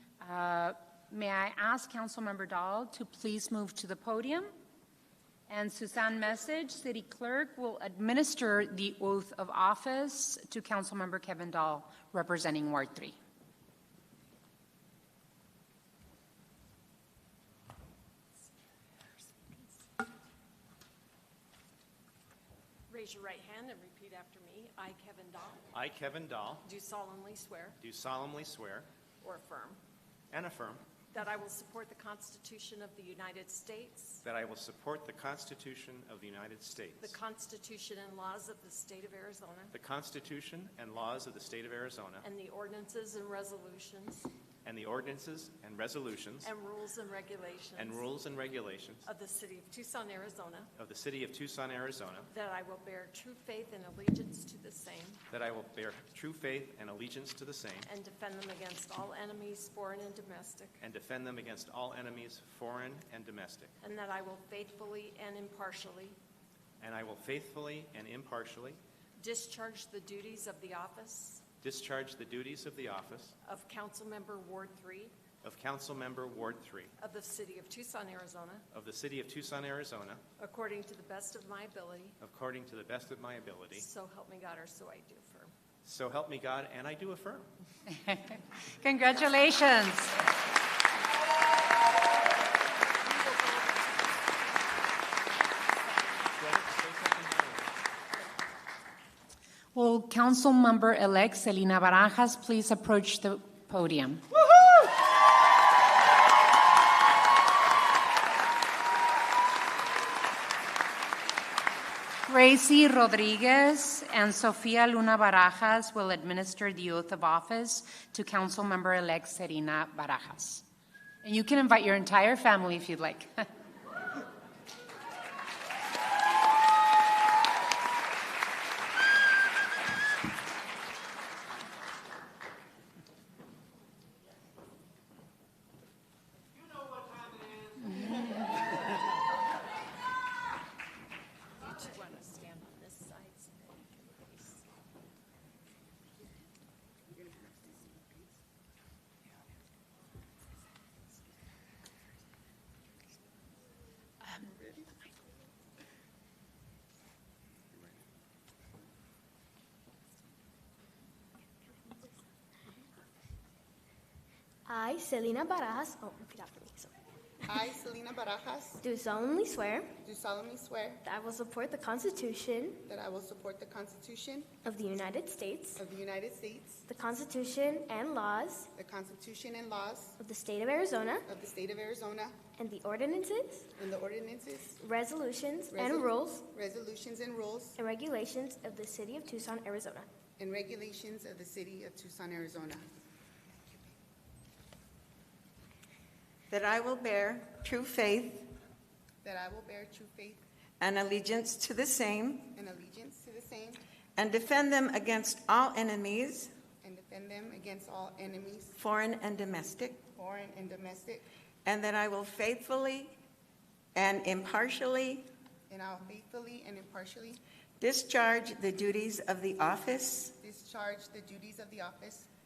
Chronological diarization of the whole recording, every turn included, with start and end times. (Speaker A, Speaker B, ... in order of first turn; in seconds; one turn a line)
Speaker A: 0.2-4.5
Speaker A: 5.5-13.2
Speaker B: 19.1-19.7
Speaker B: 22.9-25.6
Speaker C: 25.7-26.6
Speaker B: 26.6-27.8
Speaker C: 27.8-28.9
Speaker B: 29.2-29.8
Speaker C: 30.3-30.8
Speaker B: 31.1-34.2
Speaker C: 34.2-37.2
Speaker B: 37.0-39.8
Speaker C: 39.7-42.3
Speaker B: 42.2-44.3
Speaker C: 44.6-46.5
Speaker B: 46.4-48.1
Speaker C: 47.8-49.1
Speaker B: 49.0-50.7
Speaker C: 50.8-52.3
Speaker B: 52.3-55.2
Speaker C: 55.3-57.9
Speaker B: 57.9-60.8
Speaker C: 60.8-63.7
Speaker B: 63.8-66.2
Speaker C: 66.8-68.8
Speaker B: 69.2-71.5
Speaker C: 71.6-73.3
Speaker B: 73.5-75.2
Speaker C: 75.4-76.9
Speaker B: 77.0-78.7
Speaker C: 78.7-80.2
Speaker B: 80.4-82.2
Speaker C: 82.2-83.9
Speaker B: 83.7-85.5
Speaker C: 85.8-87.5
Speaker A: 88.0-90.2
Speaker B: 92.8-94.3
Speaker B: 95.9-96.2
Speaker C: 96.4-97.8
Speaker A: 99.7-104.2
Speaker C: 104.5-104.8
Speaker A: 112.3-120.6
Speaker A: 121.2-123.5
Speaker B: 141.6-144.7
Speaker D: 147.1-148.3
Speaker D: 154.4-154.9
Speaker E: 164.7-166.9
Speaker D: 167.4-168.8
Speaker E: 168.8-170.0
Speaker D: 170.0-171.0
Speaker E: 171.0-172.8
Speaker D: 172.9-174.5
Speaker E: 174.7-175.8
Speaker D: 175.8-176.8
Speaker E: 176.9-178.7
Speaker D: 178.8-180.2
Speaker E: 180.2-181.3
Speaker D: 181.3-182.4
Speaker E: 182.6-183.7
Speaker D: 183.8-184.8
Speaker E: 184.7-186.5
Speaker D: 185.7-187.8
Speaker E: 187.8-190.1
Speaker D: 190.4-192.9
Speaker F: 196.5-198.5
Speaker D: 199.2-200.4
Speaker F: 200.8-202.6
Speaker D: 202.5-203.8
Speaker F: 204.2-206.5
Speaker D: 206.8-208.7
Speaker F: 208.8-210.1
Speaker D: 210.2-211.2
Speaker F: 211.7-213.2
Speaker F: 213.9-215.3
Speaker D: 215.7-217.4
Speaker F: 217.8-220.3
Speaker D: 220.4-222.3